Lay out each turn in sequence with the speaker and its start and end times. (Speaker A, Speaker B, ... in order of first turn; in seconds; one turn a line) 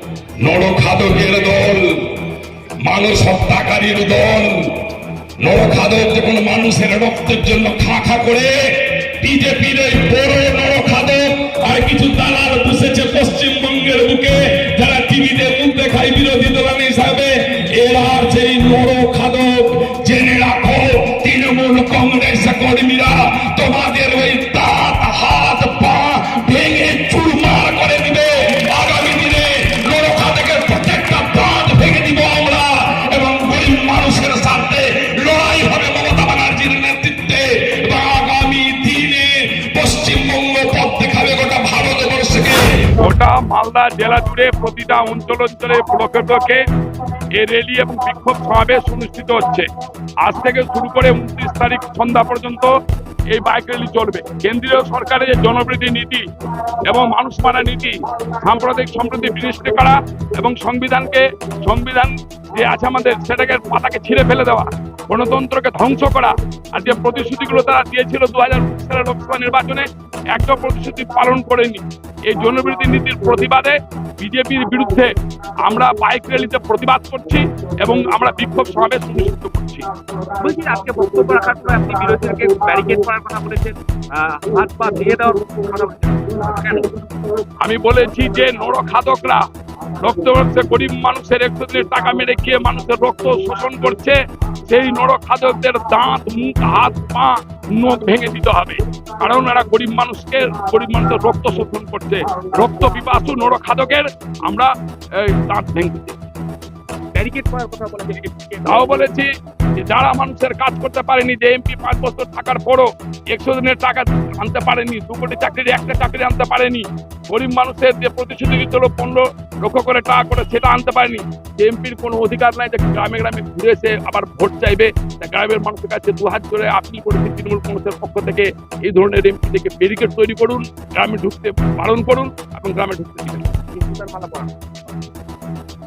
Speaker A: 0.4-2.1
Speaker A: 2.8-43.0
Speaker B: 43.0-46.6
Speaker B: 47.4-49.7
Speaker B: 50.2-52.7
Speaker B: 53.3-75.1
Speaker B: 75.6-79.9
Speaker C: 80.4-87.0
Speaker B: 87.6-89.4
Speaker B: 90.0-104.7
Speaker B: 105.2-106.2
Speaker C: 107.1-108.9
Speaker B: 108.7-133.5
Speaker C: 133.7-134.5